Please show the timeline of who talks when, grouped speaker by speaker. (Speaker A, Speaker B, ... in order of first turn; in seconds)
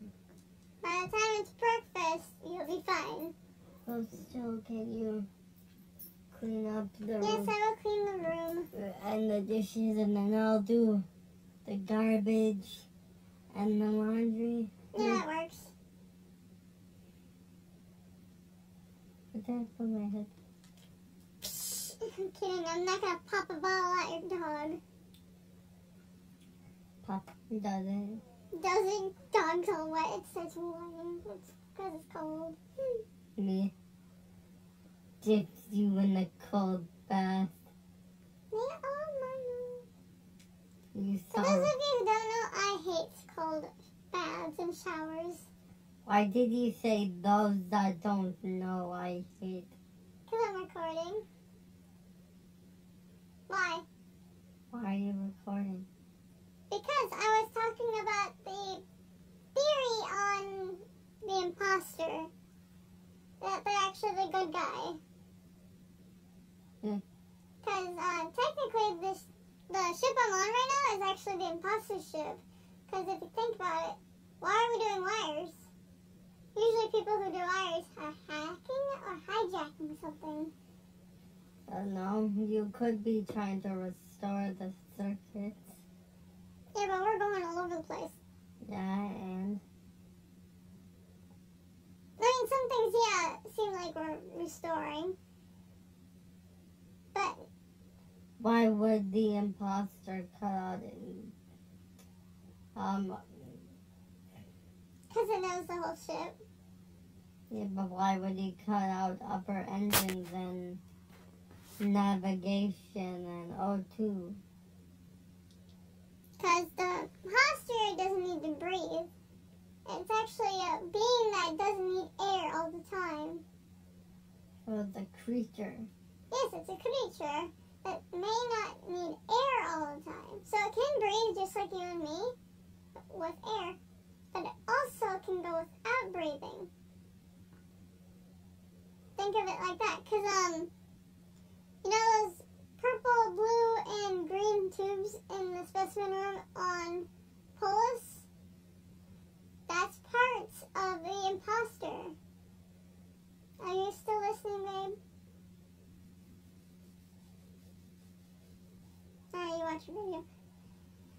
Speaker A: 0.8-3.3, 7.2-8.7, 14.9-15.7, 21.4-24.8, 28.5-33.0, 38.5-39.9, 41.3-45.5, 50.3-51.2, 53.5-53.8, 56.7-58.8, 59.5-62.3, 63.4-65.0, 67.6-75.6, 76.5-80.5, 86.7-88.2, 92.2-95.2, 97.1-97.5, 105.1-106.4, 116.4-119.1, 119.8-123.4, 126.3-132.3, 132.9-133.8, 134.3-136.7, 139.2-140.7, 141.8-148.2, 149.7-152.1, 153.6-155.0, 159.3-160.2
Speaker B: 3.8-5.3, 6.3-7.5, 8.7-11.1, 11.6-12.9, 13.5-15.2, 19.3-20.3, 27.0-28.2, 33.4-33.7, 35.2-37.6, 40.9-41.7, 46.0-49.7, 54.7-55.9, 81.7-85.7, 88.6-89.6, 98.4-101.3, 102.7-103.6, 107.5-110.8, 111.8-114.4, 124.6-125.9